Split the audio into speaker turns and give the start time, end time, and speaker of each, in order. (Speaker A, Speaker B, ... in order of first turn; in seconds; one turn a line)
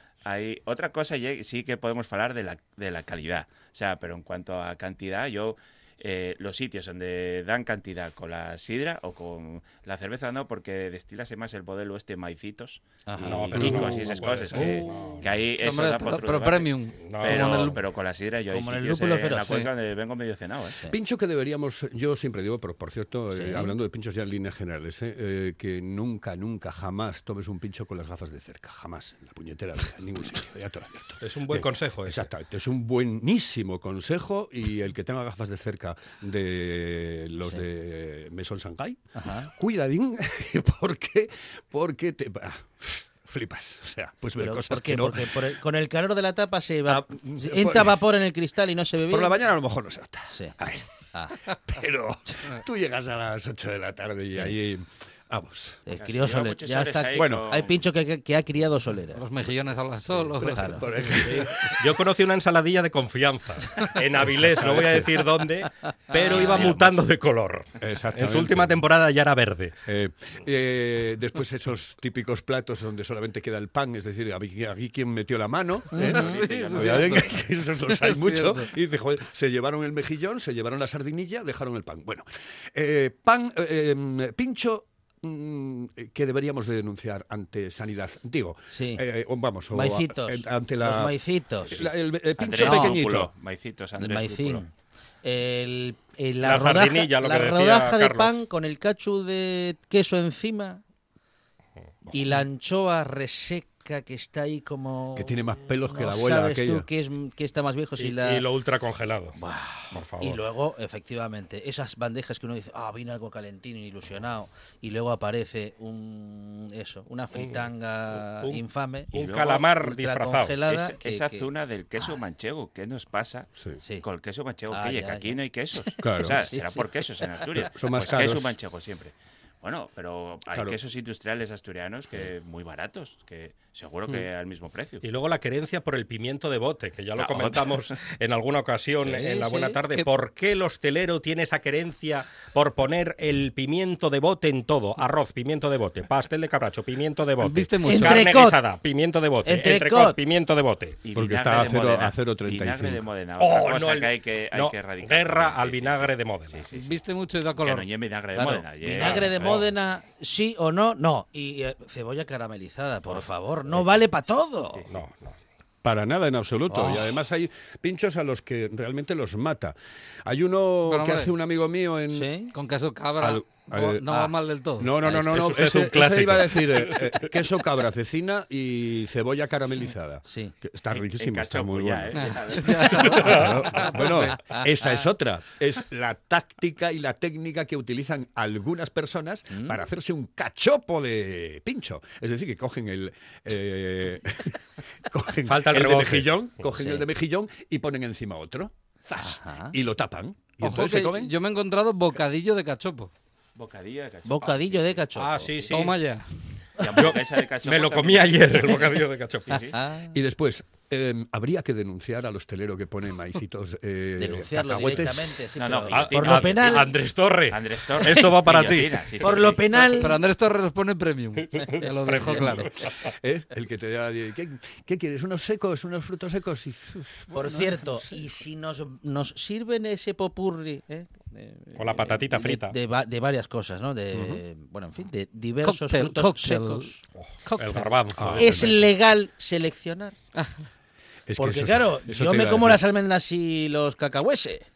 Speaker A: 0.2-20.8
Speaker B: 13.1-13.9
Speaker C: 13.3-15.2
Speaker D: 13.5-14.9
Speaker E: 15.6-17.8
Speaker C: 17.0-17.7
Speaker B: 18.5-19.6
Speaker D: 20.9-45.5
Speaker B: 23.3-23.7
Speaker C: 31.2-32.3
Speaker B: 39.1-39.5
Speaker B: 44.4-49.4
Speaker D: 46.9-48.0
Speaker D: 49.1-50.9
Speaker B: 51.1-51.4
Speaker D: 51.4-55.8
Speaker B: 55.9-59.2
Speaker A: 56.0-57.8
Speaker D: 57.1-57.5
Speaker E: 59.1-61.1
Speaker D: 60.1-61.8
Speaker B: 60.5-60.8
Speaker C: 61.2-69.8
Speaker D: 64.2-65.2
Speaker A: 66.2-66.9
Speaker B: 66.2-66.7
Speaker D: 67.8-68.8
Speaker D: 69.8-93.3
Speaker B: 75.9-76.4
Speaker E: 75.9-78.7
Speaker A: 76.1-77.2
Speaker B: 88.7-89.0
Speaker B: 89.7-91.8
Speaker A: 92.4-94.6
Speaker B: 92.6-93.0
Speaker B: 94.0-94.7
Speaker B: 95.2-100.8
Speaker C: 96.4-98.4
Speaker B: 102.1-108.4
Speaker D: 105.1-106.9
Speaker C: 108.0-109.4
Speaker B: 109.4-121.5
Speaker C: 109.9-110.4
Speaker C: 117.3-120.6
Speaker A: 119.1-119.6
Speaker A: 120.7-123.5
Speaker A: 124.0-135.0
Speaker B: 124.7-127.4
Speaker D: 126.0-126.4
Speaker D: 127.6-128.6
Speaker D: 130.5-130.8
Speaker C: 135.0-151.0
Speaker A: 137.2-137.9
Speaker B: 139.0-139.7
Speaker E: 147.4-148.3
Speaker B: 147.8-148.6
Speaker B: 149.4-150.2
Speaker A: 151.0-156.9
Speaker D: 151.1-153.1
Speaker C: 153.4-156.6
Speaker E: 156.7-157.8
Speaker A: 157.6-159.6
Speaker C: 158.4-159.7
Speaker B: 158.8-164.9
Speaker C: 164.9-165.4
Speaker D: 165.8-172.3
Speaker B: 166.7-167.1
Speaker E: 170.9-171.3
Speaker B: 172.1-172.5
Speaker E: 172.5-175.0
Speaker D: 173.2-174.1
Speaker D: 174.8-201.3
Speaker C: 175.0-177.3
Speaker B: 180.2-180.5
Speaker A: 180.9-183.6
Speaker E: 182.1-184.4
Speaker B: 184.5-185.0
Speaker B: 189.5-189.8
Speaker C: 195.4-196.4
Speaker B: 196.7-197.1
Speaker B: 199.2-199.7
Speaker E: 200.6-203.1
Speaker A: 203.6-205.8
Speaker B: 204.2-205.5
Speaker C: 205.2-206.0
Speaker E: 205.7-206.3
Speaker A: 206.8-208.9
Speaker C: 206.9-209.6
Speaker A: 209.5-209.8
Speaker B: 209.6-210.2
Speaker D: 210.1-215.4
Speaker B: 214.2-216.9
Speaker A: 215.6-219.9
Speaker C: 215.9-219.9
Speaker B: 219.2-220.2
Speaker E: 219.9-222.8
Speaker C: 221.4-223.1
Speaker D: 223.0-228.2
Speaker B: 227.3-237.0
Speaker C: 231.8-232.8
Speaker D: 234.1-234.4
Speaker E: 235.6-236.9
Speaker C: 237.1-238.8
Speaker E: 237.5-237.9
Speaker D: 238.2-238.8
Speaker B: 238.4-240.2
Speaker E: 240.3-240.6
Speaker D: 241.3-242.8
Speaker B: 241.4-244.7